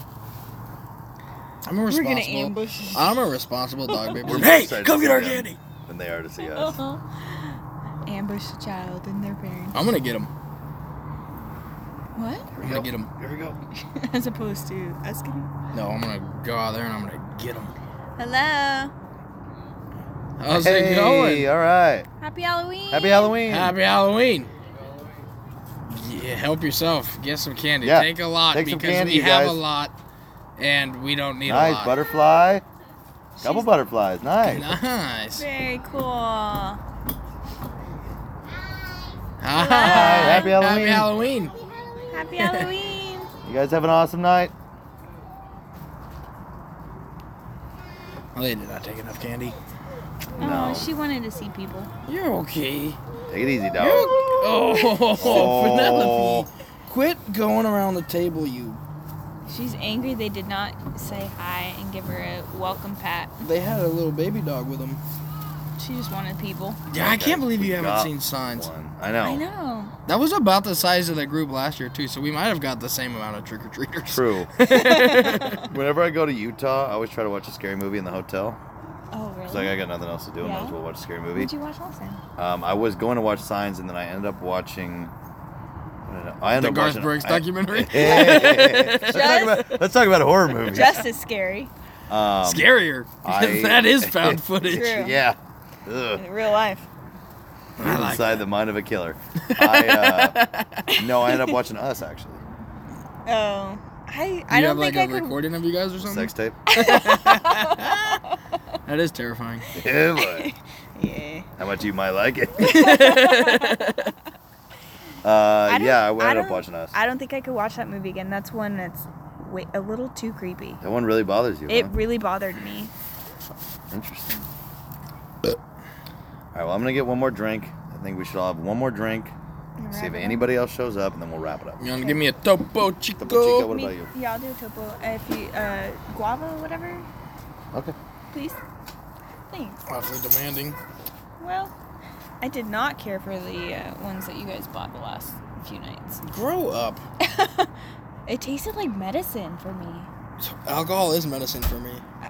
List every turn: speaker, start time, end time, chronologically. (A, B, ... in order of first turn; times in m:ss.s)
0:01.6-0:05.6 A
0:01.9-0:03.2 B
0:03.9-0:04.2 B
0:04.2-0:06.8 C
0:06.4-0:09.9 B
0:09.7-0:10.3 A
0:12.2-0:12.5 B
0:12.5-0:13.6 C
0:12.6-0:13.1 A
0:13.8-0:15.5 B
0:15.7-0:17.7 A
0:18.2-0:18.9 B
0:20.4-0:21.5 A
0:20.5-0:22.1 C
0:22.2-0:23.4 B
0:22.9-0:23.7 C
0:23.4-0:24.5 A
0:25.9-0:29.9 A
0:27.8-0:29.6 C
0:30.6-0:31.9 A
0:31.4-0:32.6 C
0:33.4-0:33.7 B
0:33.4-0:34.7 C
0:34.4-0:35.4 A
0:35.4-0:36.8 B
0:39.4-0:41.6 A
0:39.6-0:40.6 B
0:39.7-0:41.1 C
0:42.1-0:43.3 B
0:42.4-0:42.7 A
0:43.4-0:44.5 C
0:48.4-0:49.6 A
0:50.4-0:50.9 C
0:50.4-0:51.9 B
0:52.1-0:53.0 A
0:53.3-0:54.3 C
0:53.8-0:58.8 A
0:54.4-0:55.4 B
0:55.2-0:56.5 C
0:59.4-1:03.4 B
1:03.4-1:05.0 A
1:05.8-1:06.8 B
1:06.9-1:09.4 C
1:06.9-1:08.7 A
1:09.2-1:09.9 B
1:10.1-1:15.6 A
1:14.1-1:14.5 C
1:14.6-1:15.6 B
1:15.4-1:18.6 C
1:19.1-1:19.8 B
1:19.5-1:21.5 C
1:20.4-1:20.8 B
1:21.4-1:22.2 B
1:22.4-1:25.1 C
1:26.0-1:31.1 C
1:26.6-1:29.5 A
1:28.3-1:29.7 B
1:30.6-1:31.7 B
1:32.1-1:32.7 C
1:32.4-1:34.9 A
1:33.2-1:36.2 C
1:34.7-1:35.2 B
1:36.2-1:36.9 B
1:37.8-1:38.4 A
1:37.8-1:40.4 C
1:39.4-1:40.9 A
1:40.9-1:41.6 B
1:41.0-1:42.4 C
1:43.3-1:45.4 B
1:44.5-1:48.2 A
1:46.0-1:46.6 C
1:46.7-1:48.4 B
1:48.8-1:49.6 A
1:49.6-1:51.5 B
1:49.7-1:50.5 C
1:51.6-1:53.0 C
1:52.6-1:54.1 A
1:52.6-1:53.9 B
1:55.2-1:56.9 C
1:55.6-2:00.8 B
2:00.8-2:01.9 C
2:01.7-2:02.9 B
2:03.9-2:04.5 C
2:06.5-2:09.4 C
2:09.8-2:10.4 B
2:09.9-2:11.8 C
2:11.8-2:13.7 A
2:13.2-2:14.1 C
2:13.7-2:17.1 B
2:18.3-2:18.6 B
2:19.5-2:19.8 B
2:19.9-2:20.8 A
2:21.4-2:21.7 B
2:22.4-2:26.2 B
2:26.2-2:27.0 A
2:27.2-2:27.7 B
2:28.3-2:30.1 B
2:30.4-2:32.0 A